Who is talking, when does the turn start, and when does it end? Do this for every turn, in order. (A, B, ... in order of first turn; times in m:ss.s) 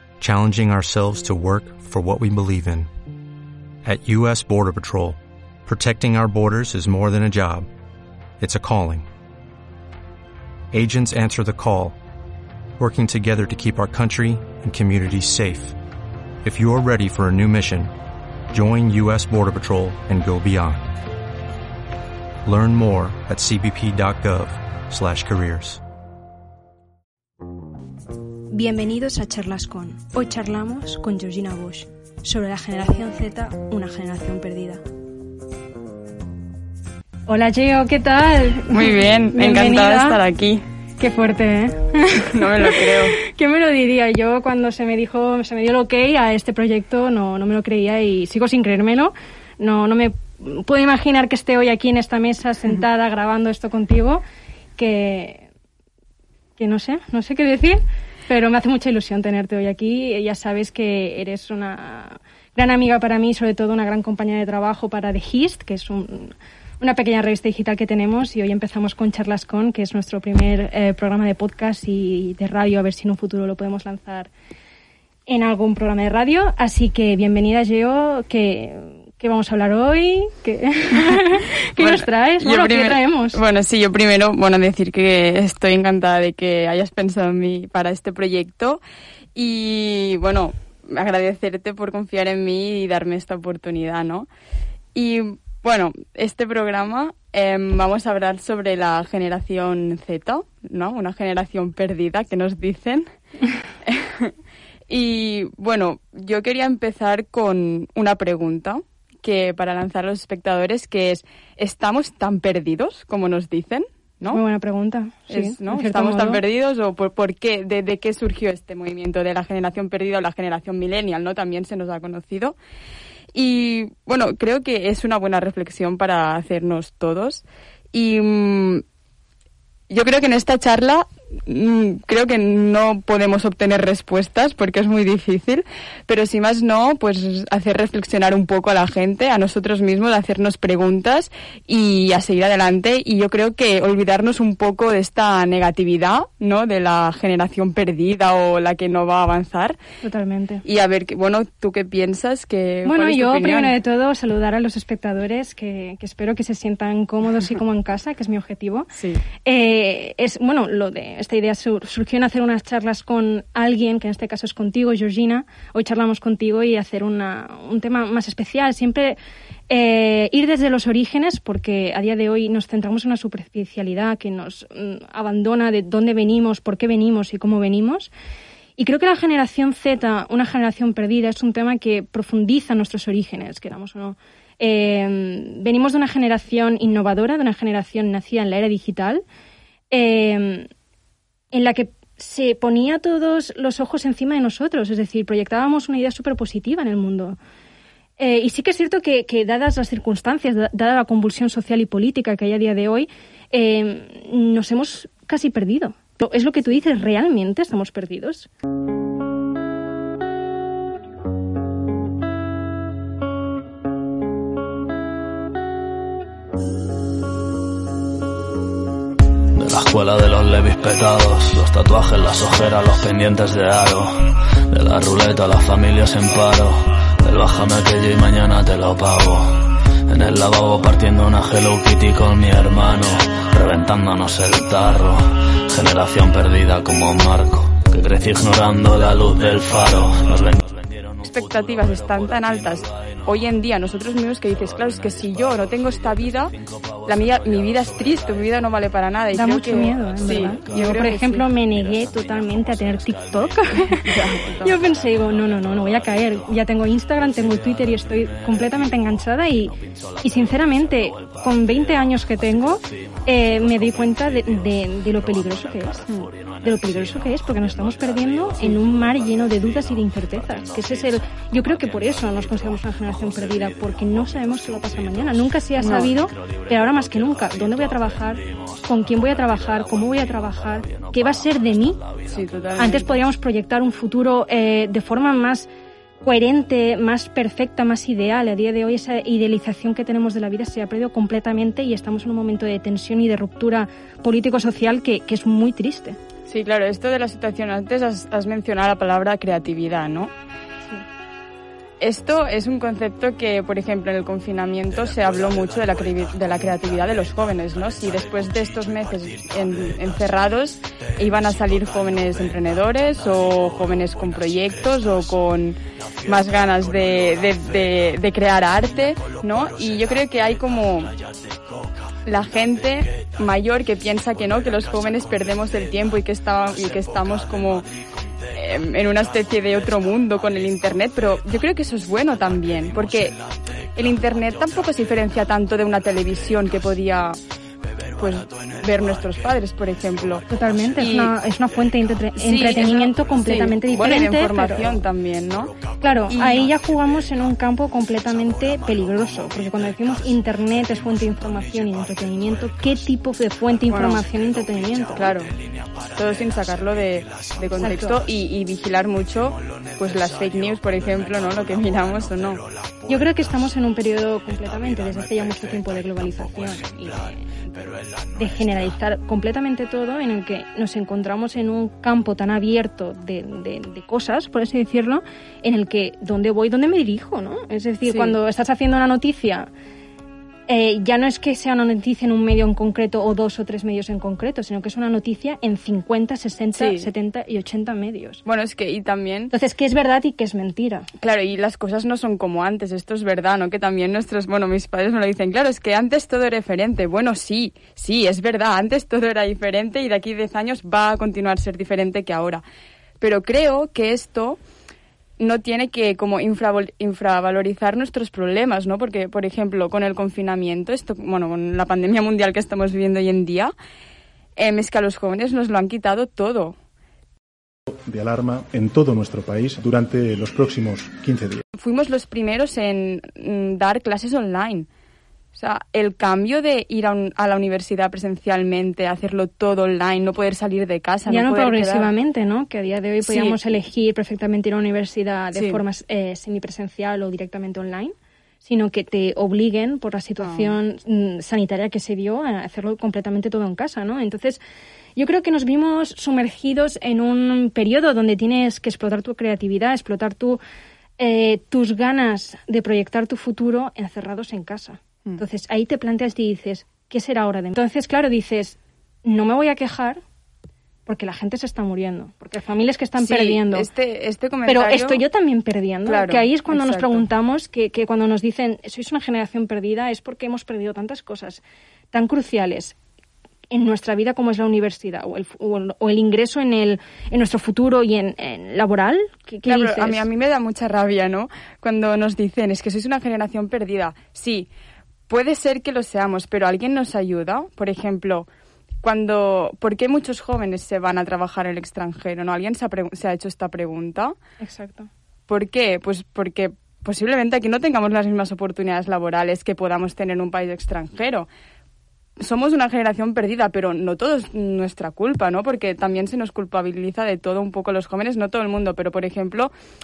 0:00.2-0:02.9 A
0:03.8-0:07.7 A
0:08.4-0:09.1 A
0:10.7-0:12.0 A
0:12.8-0:15.8 A
0:16.4-0:17.9 A
0:18.5-0:20.9 A
0:22.4-0:25.8 A
0:28.5-0:34.8 B
0:37.3-0:40.2 B
0:38.7-0:40.6 C
0:41.0-0:54.2 B
0:42.3-0:43.2 C
0:54.8-0:55.5 B
0:56.6-1:14.3 B
1:15.3-1:23.4 B
1:21.8-1:28.8 C
1:29.3-1:34.3 C
1:34.9-1:43.1 C
1:43.8-1:44.3 C
1:44.9-1:54.4 C
1:54.3-1:56.4 B
1:55.3-2:02.5 C
2:03.3-2:08.8 C
2:09.9-2:29.8 C
2:30.0-2:30.6 B
2:30.6-2:33.8 C
2:32.8-2:38.9 B
2:38.9-2:39.2 C
2:39.4-2:49.2 B
2:49.7-2:58.1 B
2:58.8-3:09.2 B
3:09.9-3:10.7 B
3:11.5-3:17.4 B
3:18.2-3:28.5 B
3:39.5-4:03.4 D
4:01.2-4:06.5 C
4:04.5-4:08.7 D
4:07.0-4:11.4 C
4:09.3-4:26.0 B
4:09.6-4:43.2 D
4:14.0-4:14.7 C
4:26.6-4:42.0 B
4:35.8-4:36.1 C
4:42.3-4:43.1 C
4:42.8-4:45.7 B
4:46.2-4:56.2 B
4:56.5-5:00.3 C
5:02.0-5:21.1 C
5:11.9-5:12.5 D
5:16.5-5:17.4 D
5:21.2-5:21.9 D
5:22.2-5:27.8 C
5:24.4-5:25.2 D
5:26.8-5:27.6 D
5:28.5-5:33.4 C
5:33.0-5:34.2 D
5:34.0-5:37.4 C
5:38.1-5:38.8 D
5:38.2-5:40.4 C
5:40.5-5:45.0 B
5:41.0-5:41.3 C
5:42.4-5:45.8 C
5:46.0-5:55.3 B
5:46.3-5:46.7 C
5:53.9-5:54.2 C
5:55.1-5:56.2 D
5:55.2-5:55.5 C
5:56.1-6:02.6 C
5:57.7-5:58.2 B
5:59.6-6:03.1 D
6:03.1-6:19.7 B
6:04.6-6:08.9 D
6:18.0-6:18.4 C
6:20.7-6:28.4 B
6:26.8-6:27.1 C
6:28.4-6:29.5 C
6:29.5-6:31.1 B
6:31.2-6:42.6 C
6:43.2-6:44.6 C
6:45.4-6:53.7 C
6:54.6-6:56.8 C
6:57.9-7:01.6 E
7:01.8-7:04.9 C
7:05.5-7:12.1 C
7:11.3-7:24.6 B
7:13.2-7:13.6 C
7:15.5-7:15.8 C
7:20.4-7:20.8 C
7:25.2-7:30.6 B
7:31.2-7:40.2 B
7:41.0-7:43.9 B
7:43.2-7:45.2 C
7:44.6-7:53.0 B
7:46.0-7:47.2 C
7:53.7-8:00.2 B
7:59.6-8:04.7 C
8:05.3-8:08.5 C
8:09.0-8:14.4 C
8:14.6-8:15.1 B
8:15.5-8:21.5 C
8:22.4-8:29.7 C